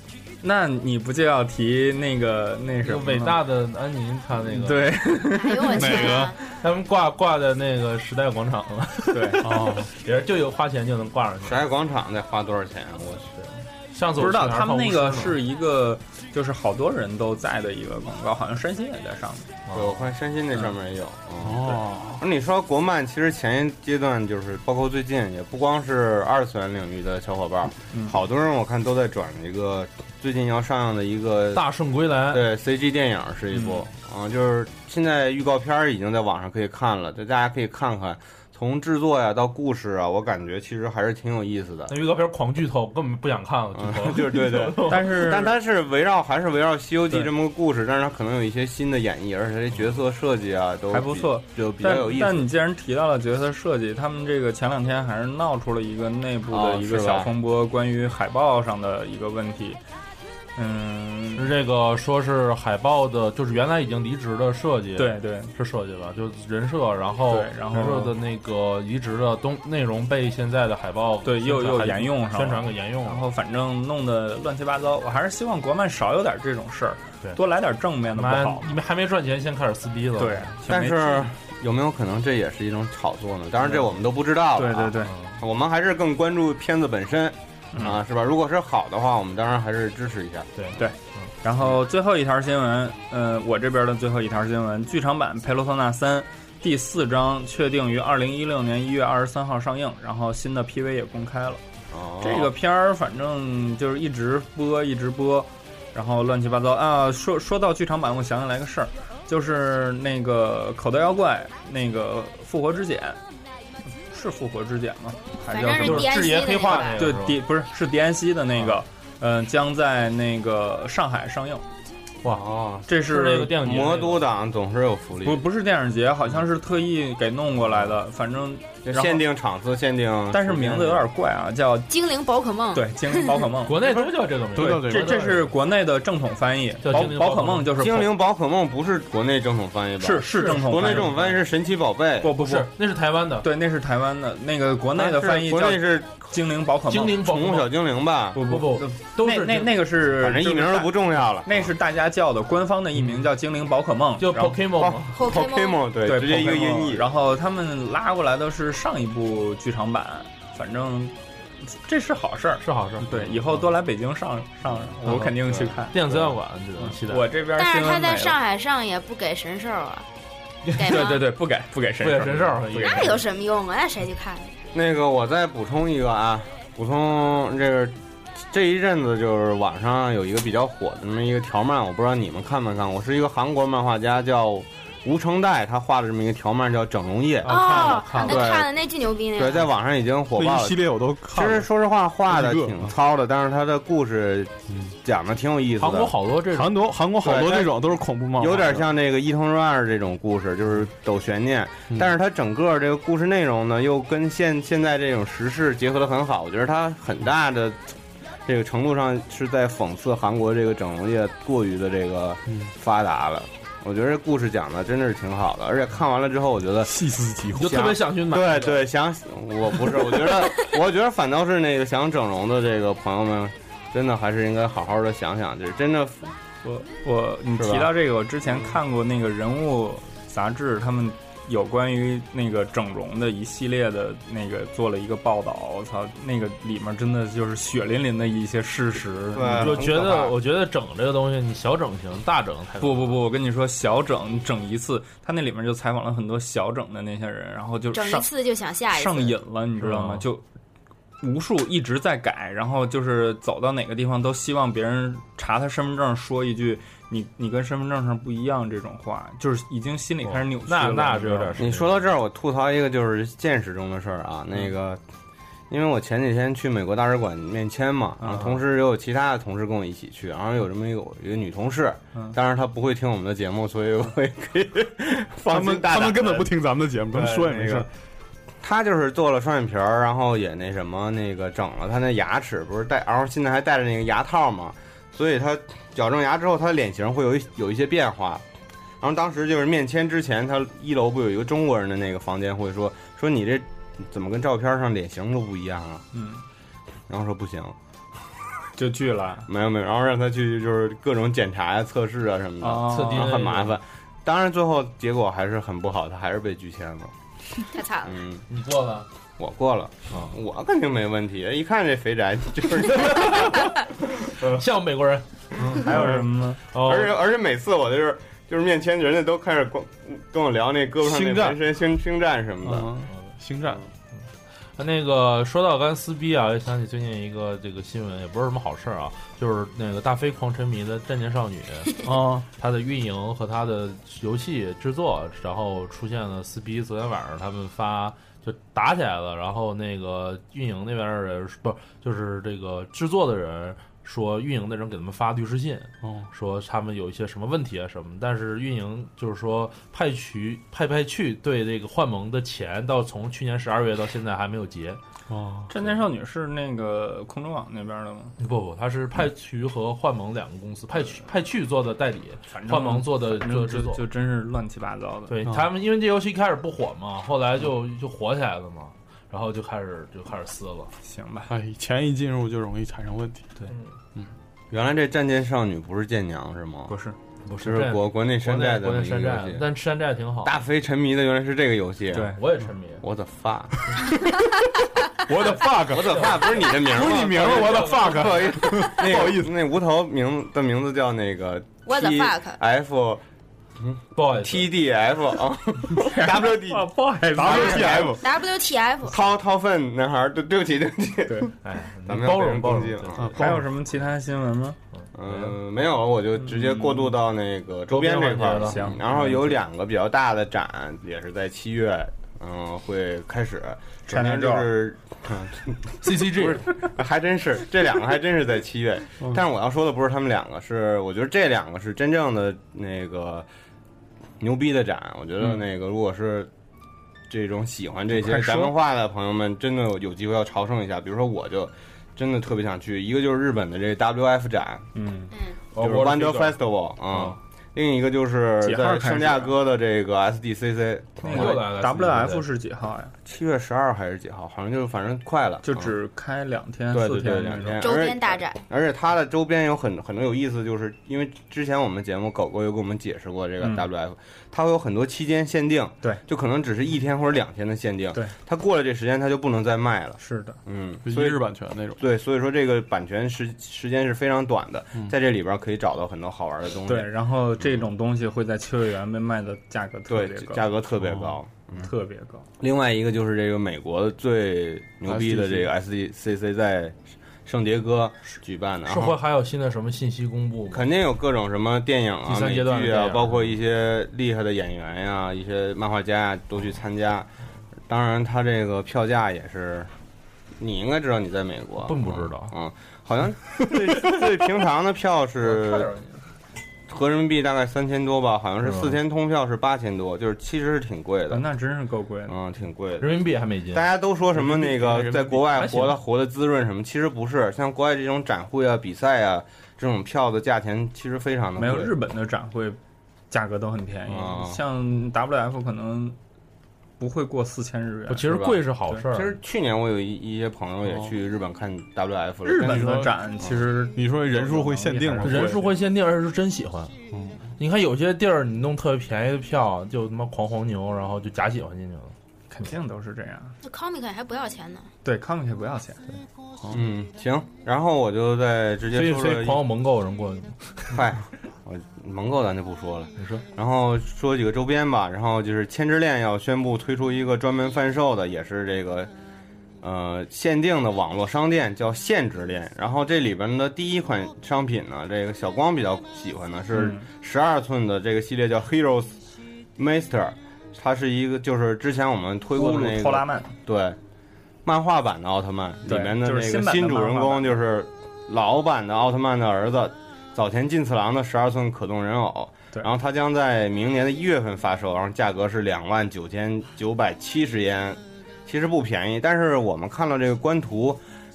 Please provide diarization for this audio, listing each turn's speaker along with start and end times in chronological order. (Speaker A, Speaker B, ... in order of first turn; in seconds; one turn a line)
Speaker A: 0.4-3.4
Speaker B: 2.8-5.0
Speaker A: 4.5-6.0
Speaker C: 5.3-6.4
Speaker D: 5.7-6.3
Speaker B: 6.4-11.6
Speaker A: 9.1-9.4
Speaker D: 9.4-9.9
Speaker E: 11.4-13.5
Speaker B: 13.9-15.4
Speaker A: 14.2-19.5
Speaker B: 19.7-20.1
Speaker E: 19.7-31.6
Speaker D: 21.4-22.2
Speaker A: 27.9-28.2
Speaker B: 31.5-32.5
Speaker E: 32.3-42.0
Speaker A: 33.5-33.8
Speaker B: 41.9-45.2
Speaker E: 43.7-52.5
Speaker A: 44.8-45.5
Speaker A: 50.9-59.8
Speaker E: 56.5-57.3
Speaker A: 60.6-61.5
Speaker B: 61.4-73.2
Speaker A: 65.0-65.5
Speaker A: 67.3-68.1
Speaker A: 71.2-78.7
Speaker B: 78.1-80.5
Speaker A: 80.2-81.3
Speaker E: 80.7-90.5
Speaker B: 83.6-83.9
Speaker A: 84.5-85.1
Speaker B: 85.1-85.4
Speaker B: 90.6-91.3
Speaker A: 90.8-101.6
Speaker E: 101.9-102.5
Speaker A: 102.2-113.2
Speaker A: 114.1-121.6
Speaker C: 115.5-117.1
Speaker B: 115.8-117.4
Speaker E: 122.3-122.9
Speaker A: 122.9-123.6
Speaker B: 123.0-124.3
Speaker E: 123.6-125.4
Speaker A: 125.2-129.2
Speaker E: 128.8-131.1
Speaker A: 130.3-131.9
Speaker C: 131.9-133.4
Speaker A: 132.7-133.9
Speaker B: 133.6-135.5
Speaker D: 134.5-135.3
Speaker A: 134.6-138.1
Speaker B: 136.8-137.7
Speaker E: 137.7-142.3
Speaker A: 140.0-141.3
Speaker B: 140.3-141.4
Speaker A: 142.2-142.7
Speaker B: 142.4-143.4
Speaker A: 143.4-147.2
Speaker E: 144.9-146.2
Speaker B: 146.9-147.7
Speaker E: 147.2-148.4
Speaker A: 148.3-154.6
Speaker B: 148.4-149.9
Speaker E: 150.1-151.7
Speaker B: 154.2-155.1
Speaker E: 154.8-157.1
Speaker C: 155.1-155.8
Speaker A: 156.0-161.1
Speaker A: 161.7-165.9
Speaker B: 162.6-163.1
Speaker B: 165.1-165.3
Speaker E: 165.5-166.3
Speaker B: 165.9-167.3
Speaker A: 166.8-168.4
Speaker C: 167.5-170.1
Speaker B: 170.6-171.0
Speaker C: 170.7-171.2
Speaker A: 170.8-173.2
Speaker B: 172.0-173.2
Speaker C: 172.8-174.6
Speaker E: 174.7-177.9
Speaker E: 178.5-188.7
Speaker B: 187.4-188.5
Speaker C: 187.4-189.7
Speaker E: 189.3-194.5
Speaker D: 190.3-191.7
Speaker D: 192.2-192.9
Speaker E: 195.0-196.1
Speaker B: 195.8-196.7
Speaker D: 196.5-198.9
Speaker E: 197.2-197.8
Speaker E: 198.4-207.9
Speaker E: 208.4-217.0
Speaker D: 216.8-217.9
Speaker B: 217.5-218.9
Speaker E: 217.6-226.3
Speaker A: 226.6-239.8
Speaker E: 227.6-227.9
Speaker E: 228.5-228.7
Speaker E: 239.3-240.3
Speaker B: 239.6-243.1
Speaker A: 242.8-248.3
Speaker C: 247.9-249.4
Speaker A: 248.9-250.4
Speaker B: 249.8-250.2
Speaker A: 251.2-261.6
Speaker B: 260.2-262.1
Speaker E: 261.6-265.0
Speaker E: 265.7-276.6
Speaker A: 268.2-268.5
Speaker D: 275.5-277.9
Speaker E: 277.1-277.9
Speaker E: 278.6-288.4
Speaker E: 289.0-296.0
Speaker A: 296.1-296.4
Speaker E: 297.1-297.7
Speaker A: 298.8-299.5
Speaker E: 299.5-307.1
Speaker A: 302.6-303.3
Speaker B: 302.9-303.8
Speaker C: 307.7-308.2
Speaker E: 308.0-308.4
Speaker B: 308.5-309.1
Speaker E: 309.4-313.7
Speaker B: 312.9-313.7
Speaker B: 314.2-316.1
Speaker A: 315.8-316.6
Speaker B: 316.7-317.2
Speaker E: 316.7-322.9
Speaker D: 321.0-321.6
Speaker D: 322.6-323.8
Speaker B: 324.8-355.0
Speaker D: 332.0-332.5
Speaker D: 355.3-355.7
Speaker A: 355.7-358.3
Speaker B: 358.4-364.0
Speaker A: 362.5-365.4
Speaker B: 365.3-370.9
Speaker A: 371.0-371.5
Speaker D: 371.5-373.5
Speaker E: 374.7-376.9
Speaker A: 376.9-377.1
Speaker B: 377.5-380.6
Speaker E: 377.6-379.6
Speaker E: 380.4-382.3
Speaker A: 382.1-382.4
Speaker B: 382.3-383.0
Speaker E: 383.0-383.9
Speaker D: 385.2-389.5
Speaker E: 385.8-393.2
Speaker B: 385.9-388.6
Speaker C: 391.8-392.6
Speaker E: 393.8-396.9
Speaker B: 394.1-394.7
Speaker A: 396.0-398.1
Speaker D: 397.3-398.2
Speaker E: 397.4-398.2
Speaker C: 397.9-399.1
Speaker E: 399.1-401.5
Speaker A: 401.2-401.5
Speaker B: 401.6-403.5
Speaker E: 402.1-403.3
Speaker D: 403.2-403.7
Speaker A: 403.4-404.8
Speaker B: 404.9-405.6
Speaker E: 405.1-423.5
Speaker A: 406.4-407.1
Speaker B: 407.9-408.9
Speaker A: 408.6-409.5
Speaker A: 414.1-414.7
Speaker B: 416.0-416.6
Speaker E: 424.4-426.5
Speaker E: 427.3-434.9
Speaker D: 428.2-428.6
Speaker A: 434.9-435.3
Speaker C: 435.3-435.6
Speaker B: 435.7-436.6
Speaker E: 435.8-441.6
Speaker B: 437.1-437.4
Speaker A: 438.6-439.5
Speaker A: 441.2-443.1
Speaker B: 441.2-442.4
Speaker E: 443.2-445.9
Speaker A: 445.6-447.9
Speaker E: 446.9-461.4
Speaker C: 447.8-448.6
Speaker A: 453.6-453.8
Speaker A: 460.2-460.6
Speaker D: 461.0-462.0
Speaker E: 462.0-467.1
Speaker A: 466.9-470.7
Speaker E: 470.1-471.9
Speaker D: 471.0-471.3
Speaker A: 471.8-472.4
Speaker E: 472.6-479.2
Speaker D: 475.1-475.7
Speaker B: 478.9-480.9
Speaker E: 480.7-487.3
Speaker B: 482.2-483.5
Speaker E: 487.9-489.9
Speaker E: 490.6-495.9
Speaker B: 491.8-492.5
Speaker B: 495.4-496.2
Speaker E: 496.9-501.5
Speaker B: 498.6-499.0
Speaker A: 501.3-502.3
Speaker E: 502.3-503.1
Speaker B: 503.0-503.9
Speaker E: 503.7-511.9
Speaker D: 504.3-505.6
Speaker B: 505.5-506.0
Speaker A: 511.6-512.8
Speaker A: 513.3-516.1
Speaker E: 514.1-514.6
Speaker A: 517.0-518.4
Speaker B: 518.1-519.4
Speaker E: 518.3-518.6
Speaker E: 519.1-523.5
Speaker A: 522.4-525.7
Speaker D: 522.6-523.1
Speaker D: 523.9-525.7
Speaker B: 525.2-526.9
Speaker D: 527.1-527.4
Speaker B: 527.6-532.1
Speaker A: 532.5-533.5
Speaker C: 533.6-534.9
Speaker A: 535.0-536.0
Speaker E: 536.7-539.6
Speaker B: 538.9-541.0
Speaker E: 540.9-549.1
Speaker B: 543.2-543.4
Speaker E: 549.8-559.2
Speaker A: 556.7-557.1
Speaker E: 559.8-564.0
Speaker A: 562.5-563.5
Speaker E: 564.6-581.0
Speaker A: 565.9-567.5